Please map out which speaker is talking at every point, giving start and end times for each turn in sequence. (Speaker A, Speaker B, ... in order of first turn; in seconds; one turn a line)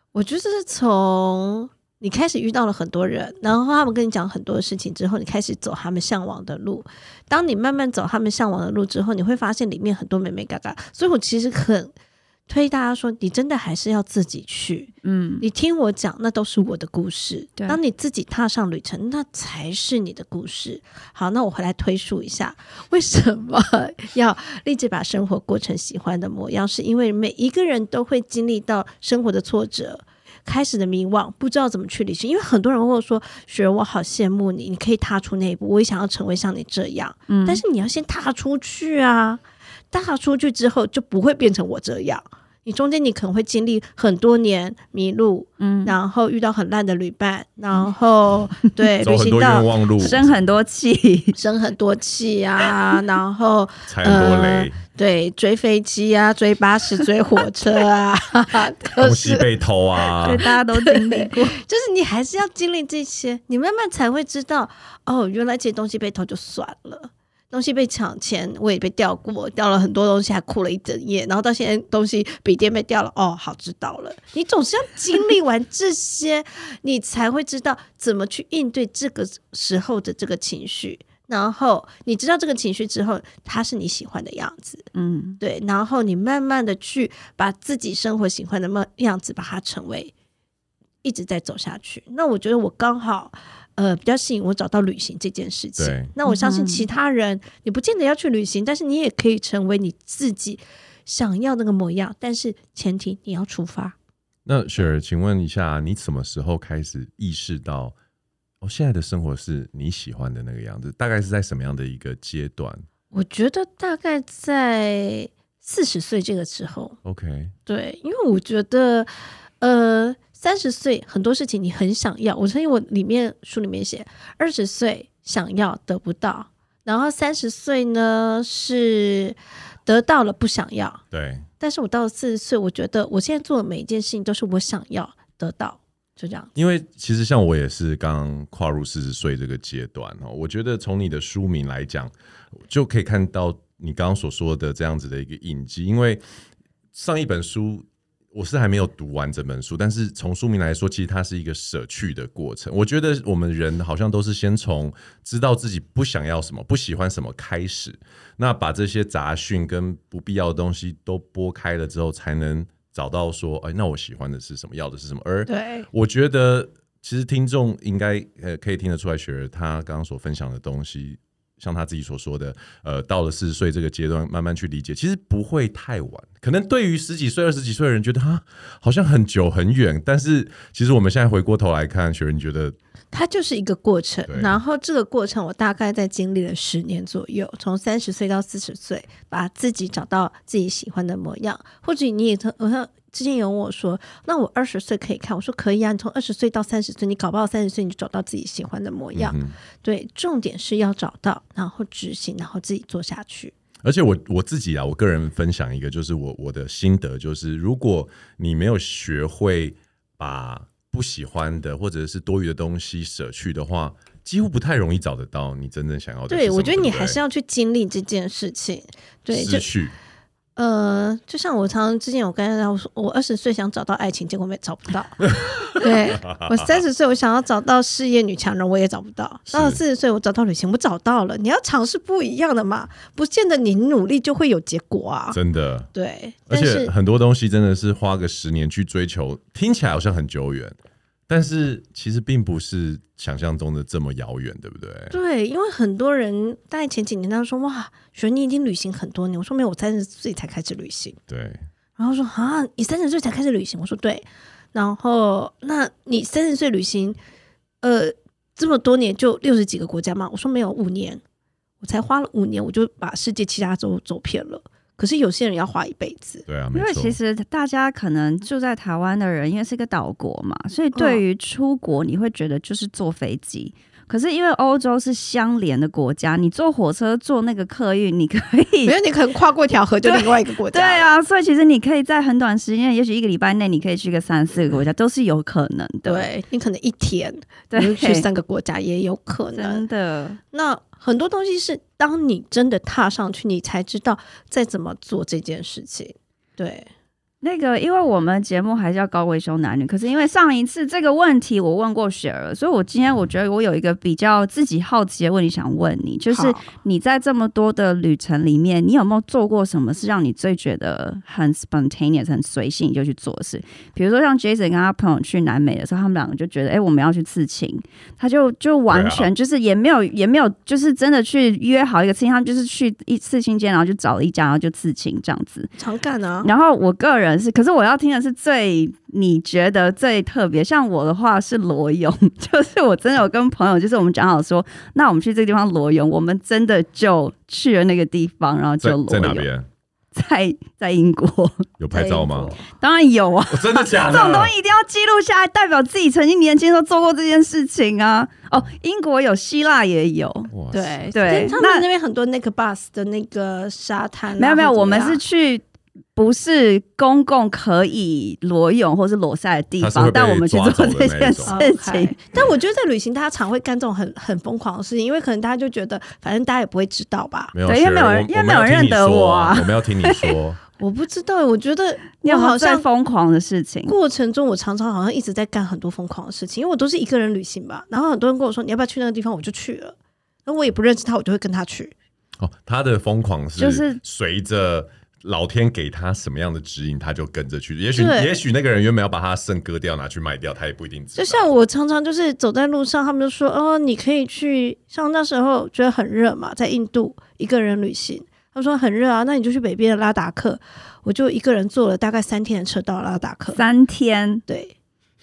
Speaker A: 0.1-11.9
Speaker A: 12.5-39.4
Speaker B: 15.0-15.4
Speaker B: 37.3-37.6
Speaker A: 39.9-49.7
Speaker B: 45.6-46.0
Speaker C: 49.0-50.3
Speaker B: 50.0-51.4
Speaker A: 51.4-59.5
Speaker C: 53.9-54.8
Speaker C: 59.0-60.5
Speaker B: 60.2-61.6
Speaker A: 60.4-84.9
Speaker B: 85.0-85.4
Speaker A: 85.4-90.1
Speaker A: 91.0-104.0
Speaker C: 95.8-96.1
Speaker B: 96.2-96.9
Speaker C: 104.5-108.0
Speaker C: 108.6-112.8
Speaker A: 113.1-117.0
Speaker C: 117.0-117.5
Speaker A: 117.7-119.1
Speaker A: 119.6-131.0
Speaker C: 131.1-131.5
Speaker A: 131.6-136.5
Speaker C: 136.6-146.2
Speaker C: 146.9-182.8
Speaker A: 165.5-165.9
Speaker A: 183.1-203.5
Speaker C: 184.3-184.6
Speaker C: 199.2-199.6
Speaker C: 203.8-217.2
Speaker A: 216.3-219.7
Speaker C: 219.3-219.9
Speaker A: 220.6-225.2
Speaker C: 225.3-226.7
Speaker A: 225.7-235.4
Speaker C: 229.5-229.8
Speaker C: 235.3-235.9
Speaker A: 235.9-236.9
Speaker C: 236.5-240.8
Speaker C: 241.3-245.2
Speaker A: 245.1-251.2
Speaker C: 251.3-251.6
Speaker A: 252.0-257.2
Speaker A: 257.8-261.2
Speaker A: 261.8-266.4
Speaker C: 266.5-267.2
Speaker B: 266.7-278.9
Speaker A: 270.9-271.2
Speaker A: 278.9-281.1
Speaker B: 280.0-286.3
Speaker A: 286.1-289.8
Speaker B: 287.7-288.3
Speaker B: 289.5-290.4
Speaker A: 290.5-296.9
Speaker B: 297.4-325.7
Speaker A: 306.3-306.6
Speaker C: 318.9-319.3
Speaker A: 325.8-326.5
Speaker B: 326.4-339.5
Speaker C: 338.8-339.7
Speaker B: 340.1-341.7
Speaker C: 341.8-342.6
Speaker A: 341.9-342.6
Speaker B: 342.6-350.5
Speaker C: 343.5-344.5
Speaker C: 350.5-351.1
Speaker A: 350.7-355.2
Speaker B: 351.1-351.9
Speaker B: 354.4-355.6
Speaker B: 356.2-362.1
Speaker C: 359.8-361.6
Speaker A: 361.5-367.5
Speaker C: 367.5-370.6
Speaker B: 367.7-370.4
Speaker A: 370.8-372.9
Speaker B: 372.2-373.9
Speaker A: 373.9-381.9
Speaker C: 382.4-391.5
Speaker B: 383.6-384.0
Speaker A: 387.9-388.4
Speaker A: 391.2-403.6
Speaker B: 403.5-404.4
Speaker A: 404.5-404.8